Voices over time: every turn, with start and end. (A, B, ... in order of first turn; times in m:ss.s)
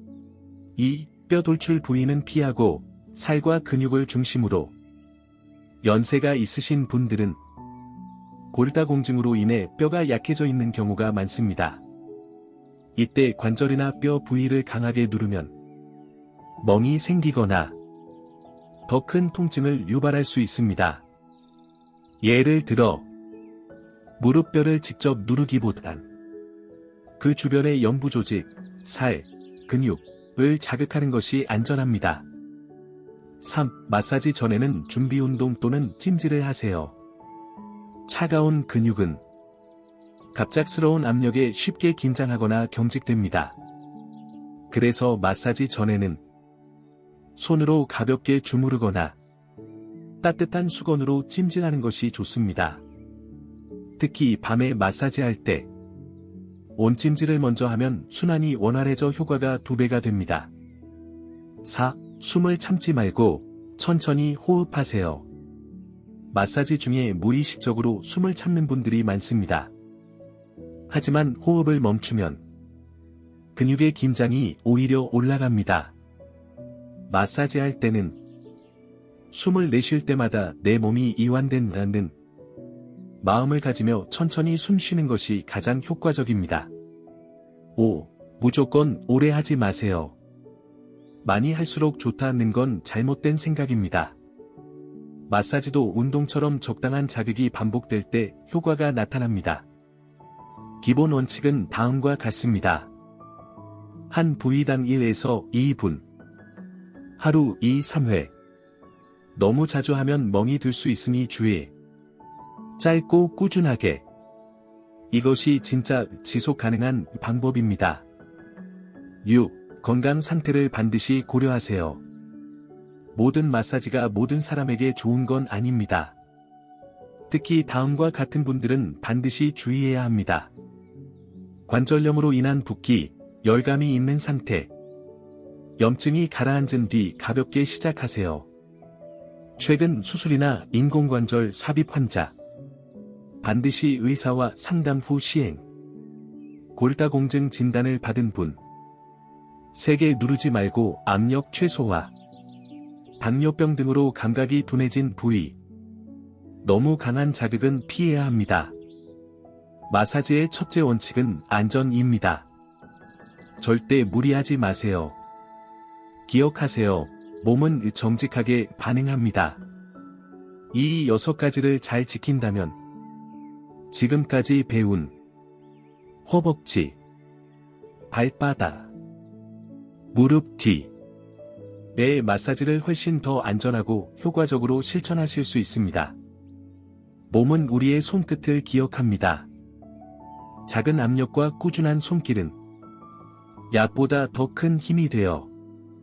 0:00.8-0:04.7 A
0:05.8-0:07.4 A
0:08.5-0:11.8 A
0:13.0-0:15.5 A
0:16.6-0:17.7 A
0:18.9-0:21.0 A
0:22.2-0:23.1 A
0:24.2-0:26.0 A
0:27.2-0:32.2 A
0:33.4-0:37.0 A
0:38.1-0:39.2 A
0:40.3-0:43.6 A
0:44.7-0:46.2 A
0:47.4-0:49.2 A
0:50.2-0:52.8 A
0:54.0-0:55.7 A
0:56.8-1:00.5 A
1:01.6-1:05.3 A
1:06.3-1:09.7 A
1:10.9-1:12.4 A
1:13.5-1:15.9 A
1:17.1-1:18.2 A
1:19.3-1:22.1 A
1:23.2-1:26.7 A
1:27.8-1:30.2 A
1:31.2-1:34.1 A
1:35.3-1:39.6 A
1:40.8-1:42.9 A
1:44.1-1:46.0 A
1:47.2-1:48.3 A
1:49.3-1:51.7 A
1:52.8-1:54.0 A
1:55.1-1:58.0 A
1:59.2-2:02.0 A
2:03.1-2:06.2 A
2:07.3-2:10.5 A
2:11.7-2:14.7 A
2:15.8-2:18.5 A
2:19.6-2:22.3 A
2:23.4-2:25.6 A
2:26.8-2:28.6 A
2:29.7-2:32.1 A
2:33.2-2:35.6 A
2:36.6-2:38.7 A
2:39.9-2:42.4 A
2:43.6-2:45.2 A
2:46.3-2:49.6 A
2:50.7-2:52.8 A
2:53.9-2:55.1 A
2:56.2-2:57.0 A
2:58.1-2:58.9 A
3:00.1-3:00.9 A
3:01.9-3:06.1 A
3:07.3-3:09.5 A
3:10.6-3:12.6 A
3:13.7-3:15.5 A